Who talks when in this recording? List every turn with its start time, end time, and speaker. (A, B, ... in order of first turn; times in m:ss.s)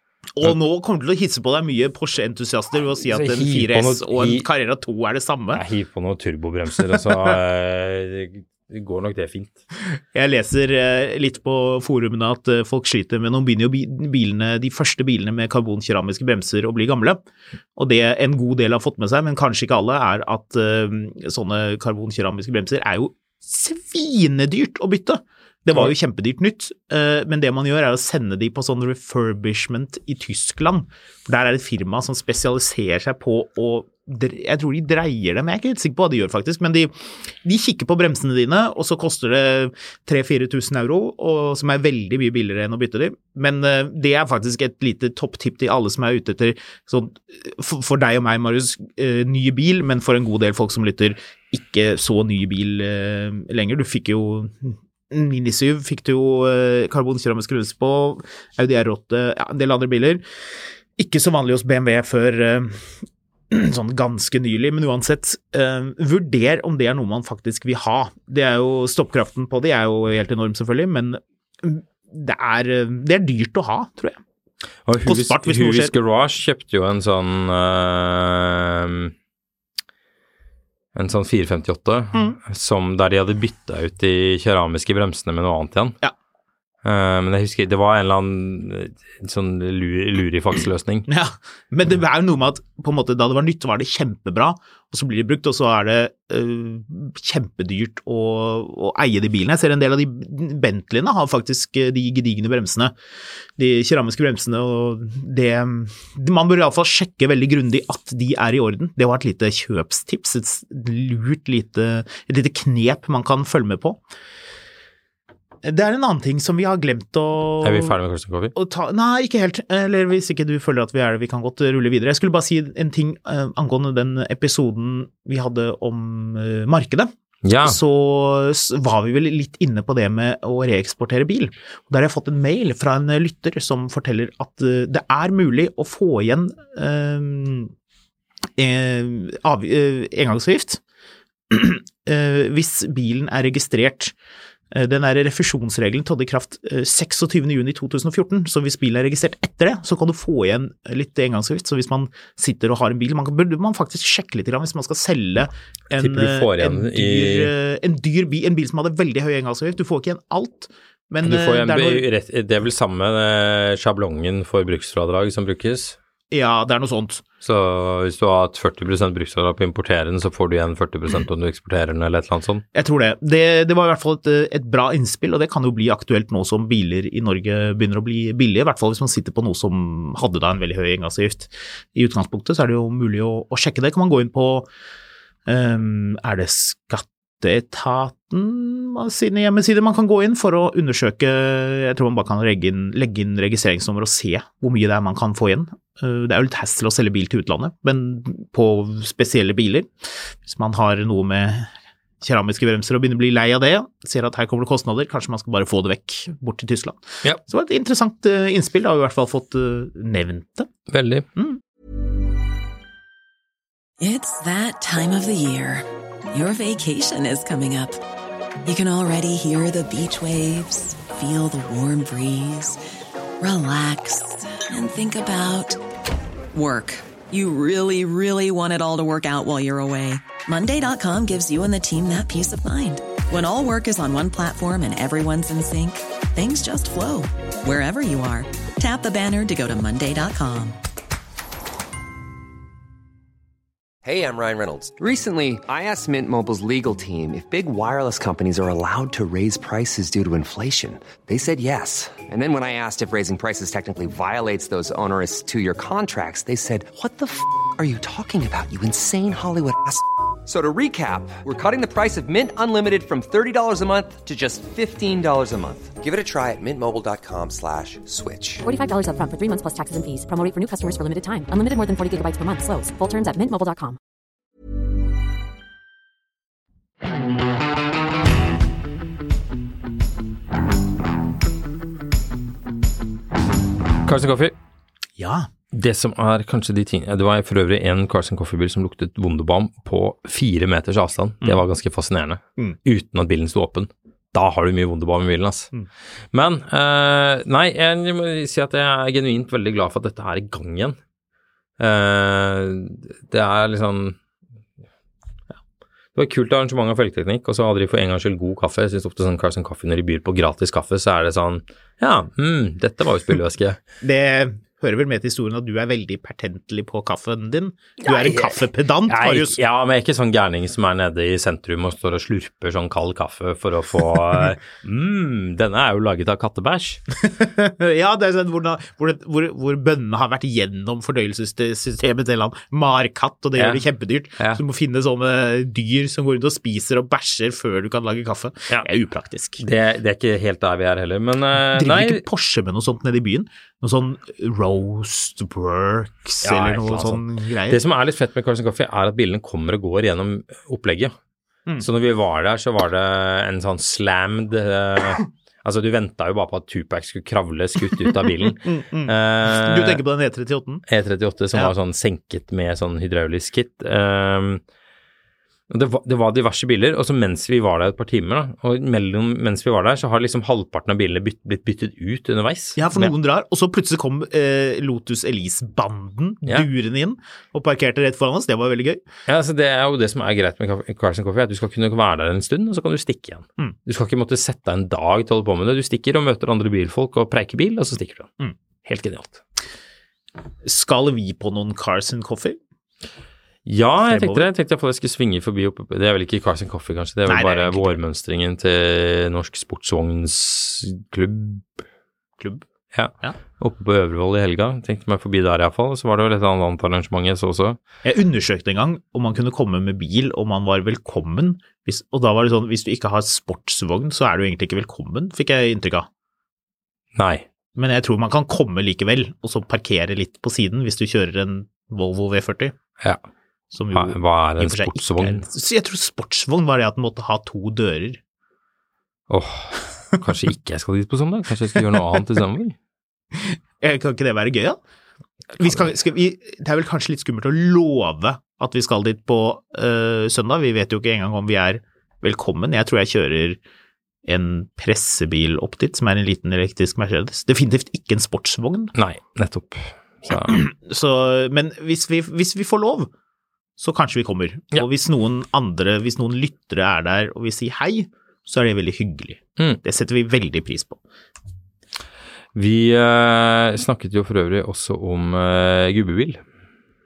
0:00.4-0:05.6 A
0:03.1-0:04.5 B
0:05.5-0:09.6 B
0:10.1-0:17.2 A
0:17.8-0:36.9 A
0:37.4-1:00.2 A
1:01.0-1:14.2 A
1:14.9-1:19.1 B
1:15.0-1:15.9 A
1:20.9-1:26.0 B
1:22.1-1:22.4 A
1:26.8-1:31.1 B
1:31.1-1:42.9 A
1:43.6-1:54.0 A
1:55.6-1:57.9 A
1:57.6-1:58.5 B
1:58.5-2:07.1 A
2:07.4-2:07.8 B
2:07.6-2:17.7 A
2:18.6-2:20.8 A
2:21.5-2:24.1 A
2:24.7-2:42.0 A
2:35.9-2:37.5 B
2:41.2-2:46.0 B
2:46.3-2:47.2 A
2:47.4-2:52.6 B
2:52.7-3:04.7 A
3:05.5-3:30.7 A
3:30.9-3:31.2 B
3:34.0-3:38.0 C
3:38.6-3:42.8 C
3:43.4-3:45.8 C
3:46.5-4:00.8 C
4:04.0-4:28.6 D
4:28.6-4:34.0 E
4:44.0-4:44.5 B
4:45.2-4:45.5 A
4:45.7-4:55.7 B
4:56.3-5:01.0 B
5:01.8-5:04.2 B
5:06.1-5:13.8 B
5:14.0-5:19.6 A
5:18.0-5:27.0 B
5:27.2-5:39.6 A
5:33.6-5:33.8 B
5:39.6-5:42.2 B
5:41.7-5:47.8 A
5:46.4-5:51.1 B
5:51.8-6:00.0 B
5:58.6-6:00.8 A
6:00.9-6:04.6 B
6:05.7-6:13.1 B
6:12.8-6:19.0 A
6:19.3-6:28.3 B
6:28.8-6:29.4 B
6:30.6-6:32.6 A
6:33.6-6:41.8 B
6:34.1-6:34.5 A
6:37.3-6:38.0 A
6:42.9-6:47.8 B
6:48.0-6:56.1 A
6:57.2-6:57.4 B
6:57.8-7:02.7 A
7:03.7-7:08.2 A
7:03.9-7:05.4 B
7:09.3-7:12.8 B
7:13.3-7:14.8 A
7:15.6-7:23.6 A
7:24.2-7:28.9 A
7:28.9-7:30.6 B
7:30.4-7:33.1 A
7:33.8-7:41.0 A
7:42.5-7:46.4 B